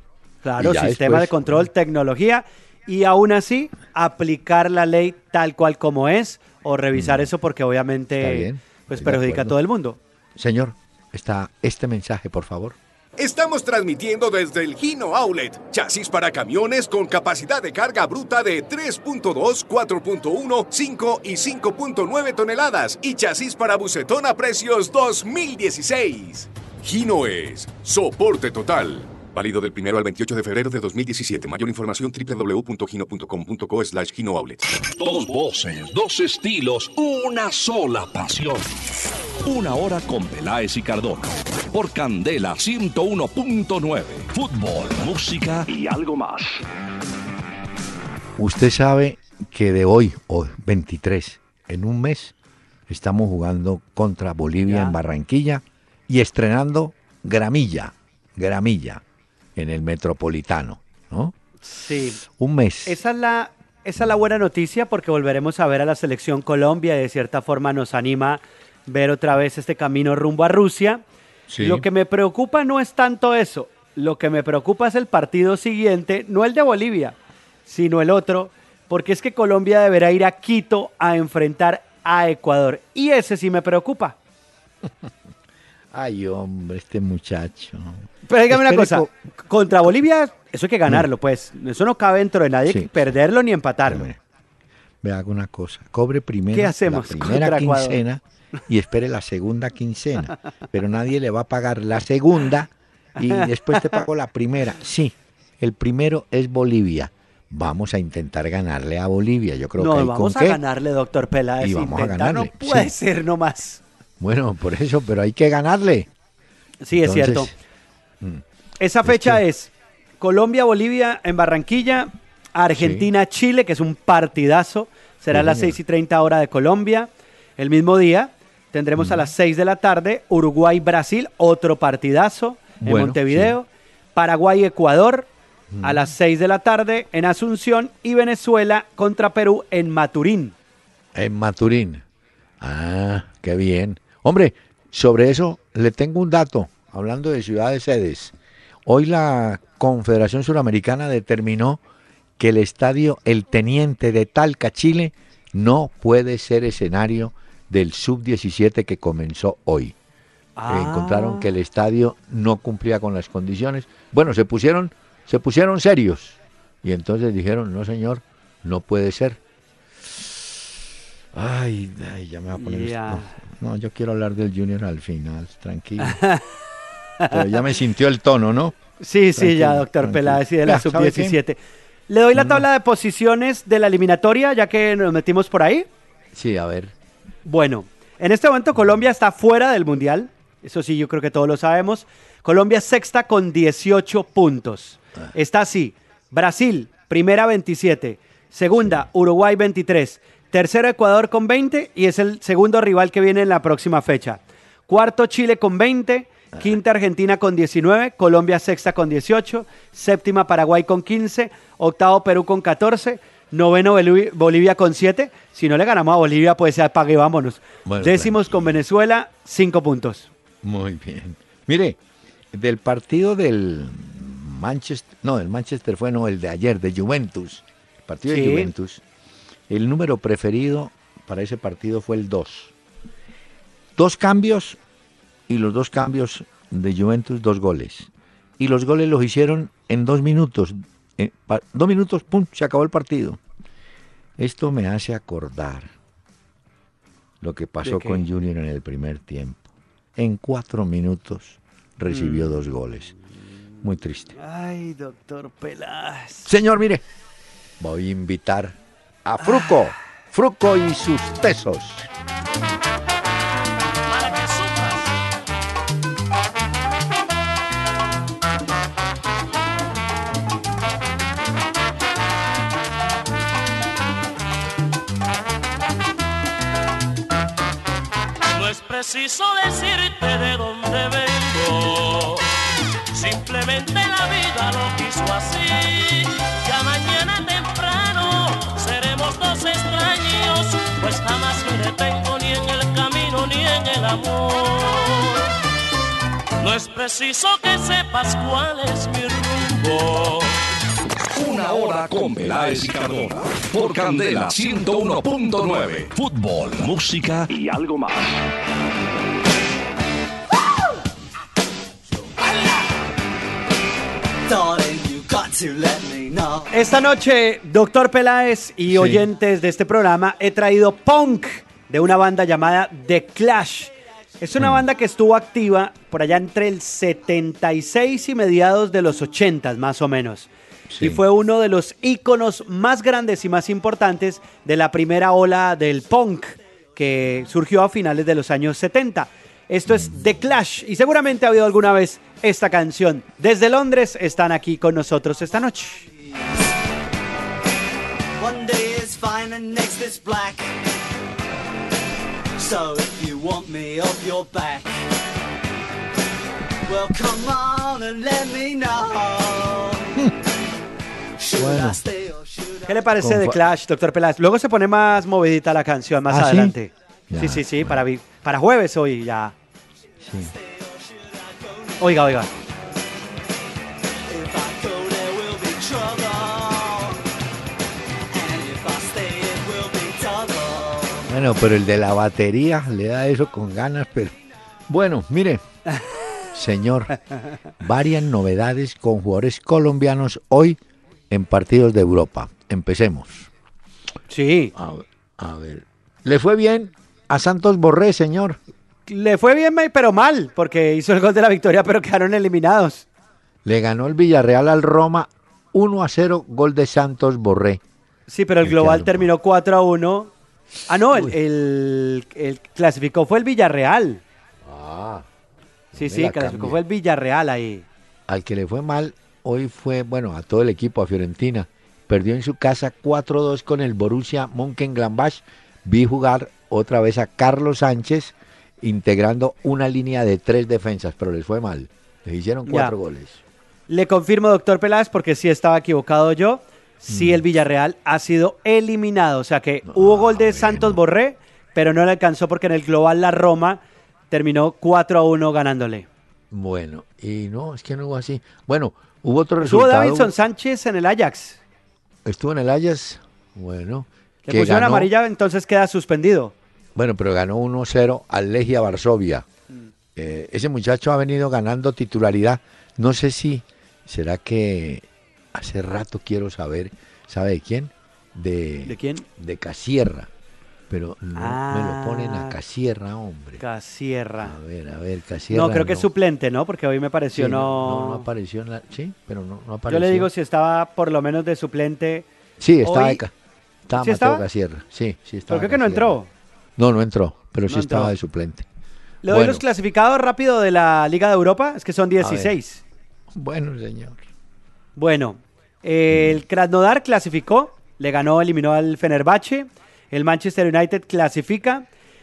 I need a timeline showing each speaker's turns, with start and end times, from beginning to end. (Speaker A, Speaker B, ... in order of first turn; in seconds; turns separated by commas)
Speaker A: 0.4-10.0, Speaker B: 0.6-1.7, Speaker B: 6.9-7.3, Speaker B: 8.2-9.6, Speaker B: 10.3-12.8, Speaker C: 13.2-34.7, Speaker D: 35.0-38.7, Speaker D: 39.4-46.6, Speaker B: 48.4-52.3, Speaker B: 52.9-59.0, Speaker A: 54.7-55.0, Speaker B: 59.5-61.3, Speaker A: 61.7-62.2, Speaker B: 62.2-63.0, Speaker A: 62.9-71.0, Speaker B: 71.5-71.8, Speaker A: 71.6-77.1, Speaker A: 77.7-84.2, Speaker B: 84.8-85.1, Speaker B: 85.9-89.1, Speaker A: 88.3-94.1, Speaker B: 92.7-93.1, Speaker B: 93.8-94.2, Speaker B: 95.0-110.6, Speaker A: 96.5-98.0, Speaker A: 103.2-104.0, Speaker A: 109.8-113.8, Speaker B: 111.6-112.9, Speaker B: 114.2-116.1, Speaker A: 116.8-117.5, Speaker B: 116.9-117.5, Speaker A: 118.8-135.3, Speaker B: 119.0-119.4, Speaker B: 122.7-123.1, Speaker B: 125.3-125.8, Speaker B: 128.9-129.3, Speaker B: 132.8-133.5, Speaker B: 135.7-136.1, Speaker A: 135.8-140.5, Speaker B: 141.1-142.0, Speaker B: 142.6-148.3, Speaker B: 148.8-151.8, Speaker B: 152.4-159.9, Speaker A: 160.6-161.5, Speaker B: 160.7-169.4, Speaker B: 171.3-176.2, Speaker A: 172.5-173.3, Speaker A: 176.0-176.4, Speaker A: 177.2-177.5, Speaker B: 177.3-178.8, Speaker A: 179.0-181.6, Speaker B: 179.3-181.4, Speaker A: 182.1-185.8, Speaker B: 182.3-182.6, Speaker B: 186.3-186.9, Speaker A: 187.4-220.3, Speaker B: 198.8-199.0, Speaker B: 217.8-218.8, Speaker B: 220.6-222.0, Speaker B: 222.5-229.0, Speaker A: 228.3-228.7, Speaker B: 229.7-232.7, Speaker B: 233.9-234.8, Speaker B: 235.5-243.4, Speaker B: 244.4-245.9, Speaker B: 247.4-253.1, Speaker A: 247.8-248.2, Speaker A: 252.1-252.6, Speaker B: 253.8-254.3, Speaker A: 254.3-256.5, Speaker B: 256.4-257.0, Speaker B: 257.8-262.1, Speaker E: 264.1-265.0, Speaker E: 278.5-282.5, Speaker E: 283.1-295.5, Speaker E: 296.6-300.6, Speaker D: 301.3-308.2, Speaker F: 312.4-312.8, Speaker F: 314.5-316.7, Speaker A: 316.7-346.1, Speaker B: 318.9-319.2, Speaker B: 324.6-324.9, Speaker B: 330.9-331.2, Speaker F: 348.4-350.7, Speaker F: 352.6-354.9, Speaker F: 356.8-360.3, Speaker F: 361.4-363.1, Speaker B: 361.6-362.0, Speaker A: 362.9-369.5, Speaker B: 363.2-363.6, Speaker B: 366.3-366.7, Speaker B: 367.3-368.0, Speaker B: 370.2-370.5, Speaker F: 370.4-372.5, Speaker A: 372.0-372.5, Speaker F: 374.3-377.2, Speaker F: 378.3-381.3, Speaker B: 381.3-384.4, Speaker B: 384.9-385.6, Speaker B: 386.5-387.1, Speaker B: 387.8-390.8, Speaker B: 391.3-393.5, Speaker A: 394.3-394.7, Speaker B: 394.7-398.6, Speaker A: 399.1-403.0, Speaker B: 403.6-407.8, Speaker A: 408.3-410.3, Speaker B: 408.6-409.3, Speaker A: 410.9-414.2, Speaker B: 414.6-415.3, Speaker B: 415.9-416.8, Speaker A: 415.9-417.8, Speaker B: 418.3-433.4, Speaker A: 432.6-432.9, Speaker A: 433.9-443.8, Speaker B: 437.1-437.4, Speaker B: 439.8-441.0, Speaker A: 444.3-446.1, Speaker B: 446.5-450.3, Speaker A: 449.6-451.6, Speaker B: 452.2-455.1, Speaker A: 454.5-456.5, Speaker B: 456.9-459.4, Speaker B: 460.1-470.3, Speaker A: 468.8-469.2, Speaker B: 470.9-473.6, Speaker A: 471.3-472.6, Speaker A: 473.6-474.5, Speaker B: 474.4-476.1, Speaker A: 475.5-478.3, Speaker B: 477.3-480.3, Speaker A: 479.9-482.2, Speaker B: 482.6-483.3, Speaker A: 482.8-483.2, Speaker B: 483.9-486.2, Speaker A: 483.9-484.4, Speaker A: 485.5-486.3, Speaker B: 486.8-488.6, Speaker A: 487.7-488.1, Speaker A: 489.2-492.8, Speaker B: 489.3-489.6, Speaker B: 492.2-492.5, Speaker B: 493.3-494.2, Speaker A: 494.9-501.9, Speaker B: 496.1-496.4